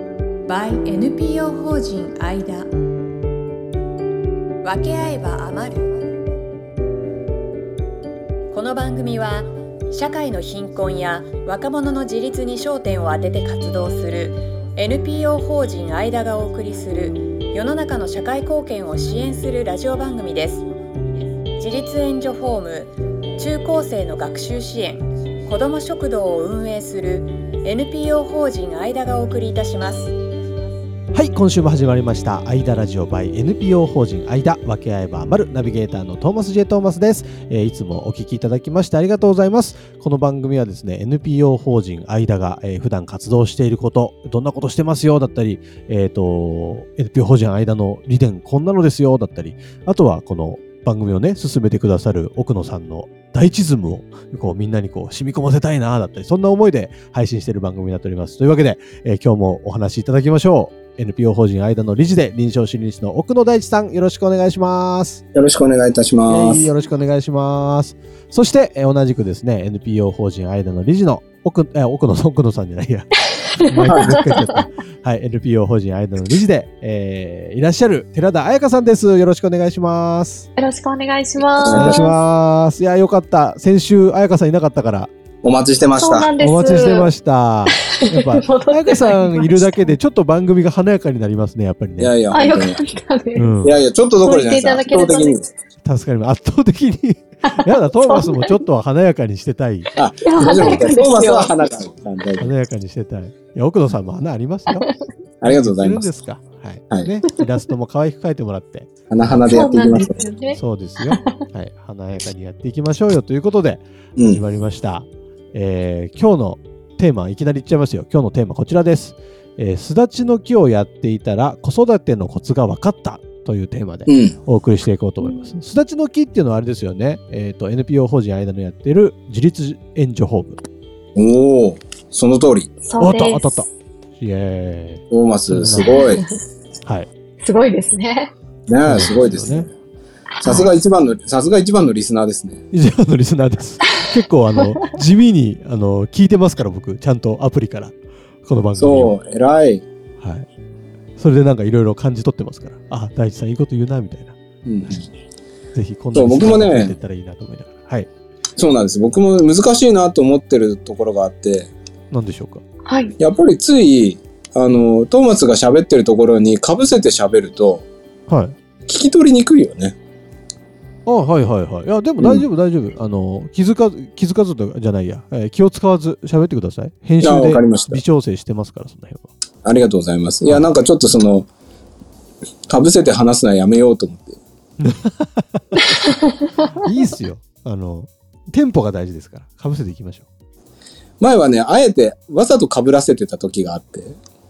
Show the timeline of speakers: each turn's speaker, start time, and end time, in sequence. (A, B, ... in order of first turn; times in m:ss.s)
0:00.5-0:02.7 A
0:04.6-0:05.9 A
0:08.5-0:20.7 A
0:21.6-0:30.1 A
0:31.1-1:05.2 B
1:05.3-1:06.7 C
1:06.3-1:20.5 B
1:13.9-1:14.2 C
1:20.6-1:22.1 D
1:21.6-1:22.1 C
1:21.7-1:25.1 B
1:25.4-1:26.3 C
1:26.0-1:27.1 D
1:26.4-1:32.2 B
1:28.0-1:29.9 D
1:32.0-1:32.8 C
1:32.3-1:33.6 D
1:33.4-1:33.8 B
1:33.6-1:35.4 C
1:34.2-1:35.5 D
1:35.8-1:39.9 B
1:38.1-1:38.5 D
1:40.0-1:42.5 C
1:40.2-1:41.6 D
1:40.5-1:40.9 B
1:42.4-1:44.9 B
1:45.4-1:46.1 C
1:45.4-1:49.6 B
1:49.1-1:50.2 C
1:49.4-1:51.2 D
1:50.6-2:10.6 B
1:54.2-1:54.4 C
2:04.1-2:04.4 C
2:05.2-2:05.5 D
2:11.2-2:12.7 C
2:12.8-2:13.4 D
2:13.0-2:16.1 B
2:15.1-2:16.2 C
2:15.8-2:16.4 D
2:17.4-2:18.3 D
2:18.7-2:19.7 C
2:18.8-2:19.7 B
2:20.4-2:20.7 D
2:20.4-2:22.6 C
2:22.7-2:29.2 B
2:28.8-2:29.9 C
2:30.2-2:30.5 B
2:31.2-2:35.0 B
2:34.6-2:35.0 C
2:35.8-2:38.1 B
2:36.1-2:37.0 C
2:38.6-2:41.7 C
2:42.1-2:42.6 B
2:42.8-2:43.2 D
2:43.2-2:47.9 C
2:48.3-2:48.6 B
2:48.9-2:50.0 C
2:51.1-2:59.3 B
2:57.2-2:58.0 C
2:59.6-3:01.5 C
3:02.7-3:04.4 C
3:04.8-3:05.8 B
3:06.8-3:10.3 B
3:11.2-3:14.2 C